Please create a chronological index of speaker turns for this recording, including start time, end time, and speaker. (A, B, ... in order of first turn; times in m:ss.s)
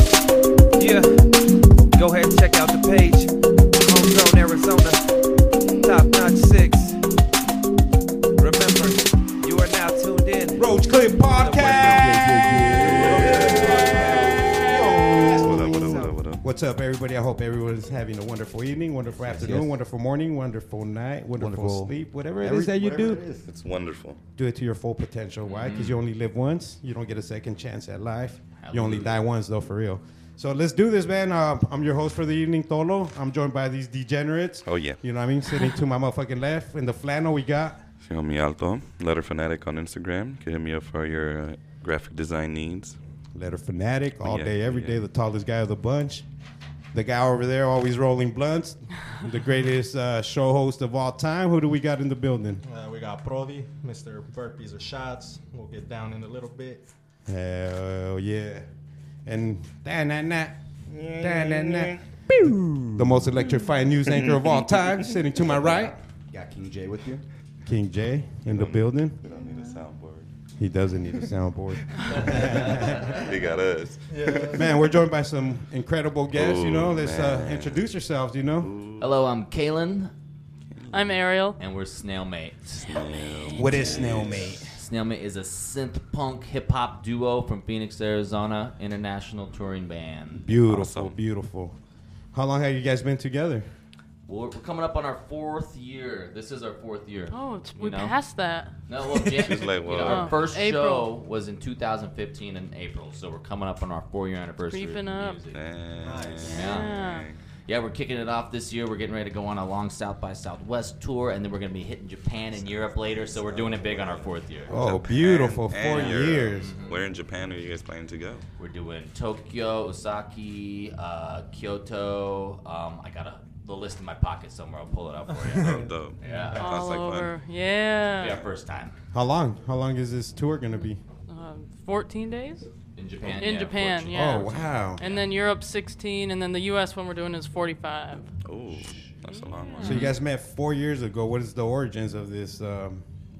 0:00.8-0:01.4 A
0:01.9-0:05.0 A
0:05.8-0:07.0 A
0:08.4-0:10.8 A
0:10.6-0:23.2 B
0:11.3-0:11.8 A
0:11.4-0:16.2 C
0:12.8-0:13.8 D
0:15.4-0:16.4 D
0:19.2-0:19.7 C
0:21.4-0:23.5 C
0:23.5-0:24.2 D
0:24.4-0:37.8 B
0:25.5-0:26.0 E
0:28.6-0:29.1 E
0:34.7-0:35.0 D
0:38.0-0:43.0 D
0:43.3-0:46.3 B
0:44.2-0:45.0 D
0:46.9-0:52.6 B
0:52.6-0:56.8 F
0:57.3-0:58.7 B
0:59.3-1:00.6 B
1:01.0-1:02.0 D
1:01.1-1:01.5 C
1:01.2-1:02.0 B
1:02.4-1:03.2 C
1:03.0-1:06.0 B
1:06.3-1:07.2 C
1:07.6-1:09.2 B
1:08.5-1:10.3 D
1:10.6-1:13.2 B
1:12.1-1:14.8 D
1:14.1-1:14.7 F
1:14.5-1:18.7 B
1:16.3-1:17.8 D
1:18.6-1:19.2 D
1:19.0-1:20.1 E
1:20.7-1:21.2 D
1:20.9-1:21.6 G
1:21.6-1:30.6 E
1:22.8-1:24.7 D
1:23.6-1:24.8 B
1:30.4-1:31.8 B
1:30.6-1:31.2 D
1:32.3-1:33.7 B
1:34.3-1:38.2 E
1:37.3-1:38.8 G
1:38.9-1:45.6 E
1:39.4-1:40.4 D
1:39.9-1:41.1 G
1:44.7-1:45.4 G
1:45.5-1:47.4 D
1:46.0-1:46.8 F
1:46.4-1:47.3 G
1:46.5-1:47.0 E
1:47.7-1:54.8 E
1:53.4-1:54.3 C
1:54.7-1:56.8 B
1:54.7-1:58.4 D
1:55.9-1:57.0 E
1:58.6-2:06.7 E
2:05.3-2:06.7 F
2:05.7-2:07.3 D
2:06.6-2:08.4 G
2:08.2-2:09.0 E
2:09.1-2:11.0 B
2:11.3-2:12.7 G
2:13.0-2:15.2 E
2:13.3-2:18.3 G
2:14.1-2:15.0 B
2:18.4-2:20.1 D
2:19.3-2:20.1 G
2:19.8-2:20.2 E
2:19.8-2:23.0 B